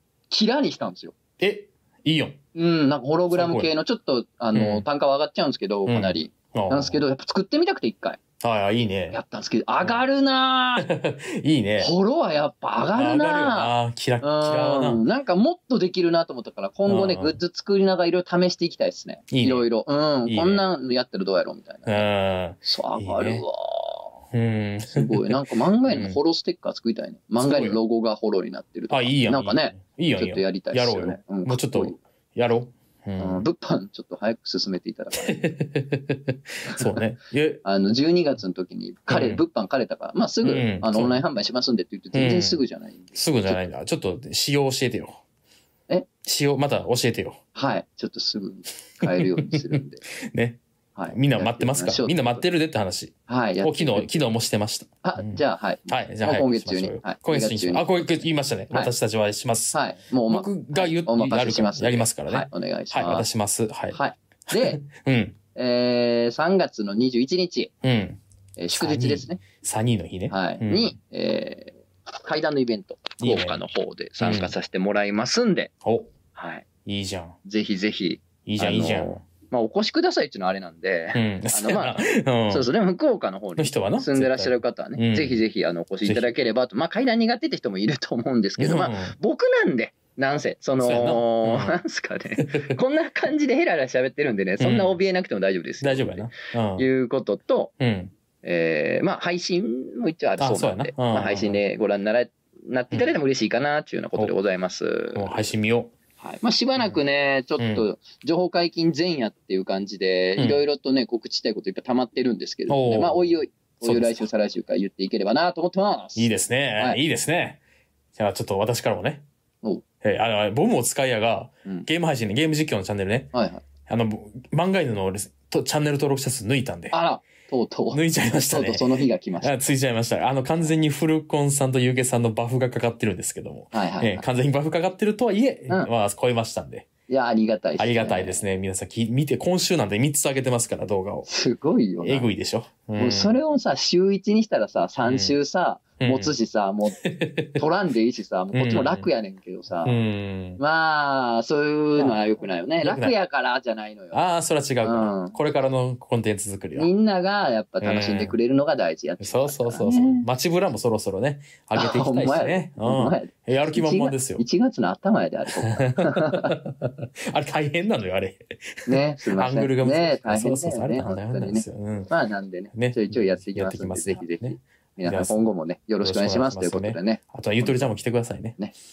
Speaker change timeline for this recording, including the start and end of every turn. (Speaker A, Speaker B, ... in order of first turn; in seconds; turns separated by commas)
Speaker A: 0.3-1.1, Speaker B: 1.4-2.4, Speaker A: 2.5-8.2, Speaker B: 3.3-3.7, Speaker B: 4.5-4.8, Speaker B: 5.9-7.0, Speaker B: 8.4-9.2, Speaker A: 9.1-10.9, Speaker B: 10.8-11.9, Speaker A: 11.8-22.1, Speaker B: 12.9-15.0, Speaker B: 16.9-17.4, Speaker B: 19.3-19.7, Speaker B: 20.3-20.6, Speaker B: 21.9-23.4, Speaker A: 22.6-24.1, Speaker B: 24.3-26.2, Speaker A: 24.9-32.0, Speaker B: 27.4-27.8, Speaker B: 28.9-33.5, Speaker A: 33.2-35.5, Speaker B: 35.2-37.6, Speaker A: 36.7-37.0, Speaker A: 37.6-43.6, Speaker B: 39.1-39.4, Speaker B: 40.4-41.2, Speaker B: 42.1-42.6, Speaker B: 43.1-45.2, Speaker B: 46.2-47.4, Speaker A: 47.5-50.0, Speaker B: 49.1-59.8, Speaker A: 50.9-52.4, Speaker A: 53.3-54.2, Speaker A: 55.0-58.1, Speaker A: 59.7-63.3, Speaker B: 60.3-65.4, Speaker A: 63.9-64.8, Speaker A: 65.5-67.7, Speaker B: 67.8-71.0, Speaker A: 68.6-69.4, Speaker A: 70.3-75.7, Speaker B: 73.2-73.6, Speaker B: 74.2-74.5, Speaker B: 75.8-76.1, Speaker A: 76.3-76.6, Speaker B: 76.8-77.3, Speaker A: 77.4-97.7, Speaker B: 78.5-79.2, Speaker B: 81.1-82.7, Speaker B: 83.6-85.4, Speaker B: 86.0-86.3, Speaker B: 88.6-89.1, Speaker B: 90.8-91.8, Speaker B: 92.4-92.7, Speaker B: 94.6-95.0, Speaker B: 95.8-96.8, Speaker B: 97.8-98.1, Speaker A: 98.4-105.6, Speaker B: 100.4-101.6, Speaker B: 105.1-105.9, Speaker A: 106.2-117.0, Speaker B: 107.6-107.8, Speaker B: 112.7-113.3, Speaker B: 113.8-114.2, Speaker B: 116.1-117.6, Speaker B: 118.1-119.2, Speaker B: 120.0-123.3, Speaker A: 123.3-123.6, Speaker B: 123.9-127.0, Speaker A: 126.9-129.6, Speaker B: 127.9-128.9, Speaker B: 129.4-136.9, Speaker A: 133.7-134.2, Speaker A: 137.1-138.4, Speaker B: 137.8-141.3, Speaker A: 141.2-142.3, Speaker B: 142.0-143.4, Speaker A: 142.9-147.0, Speaker B: 145.0-145.3, Speaker B: 146.0-146.3, Speaker B: 147.0-147.6, Speaker A: 147.5-149.9, Speaker B: 148.5-149.1, Speaker B: 149.8-150.6, Speaker A: 150.6-154.2, Speaker B: 152.8-153.1, Speaker B: 154.1-156.9, Speaker A: 154.8-155.4, Speaker A: 156.8-160.2, Speaker B: 157.8-158.3, Speaker B: 159.2-164.4, Speaker A: 161.7-166.6, Speaker B: 165.6-172.1, Speaker A: 168.9-177.9, Speaker B: 172.7-175.5, Speaker B: 176.0-178.6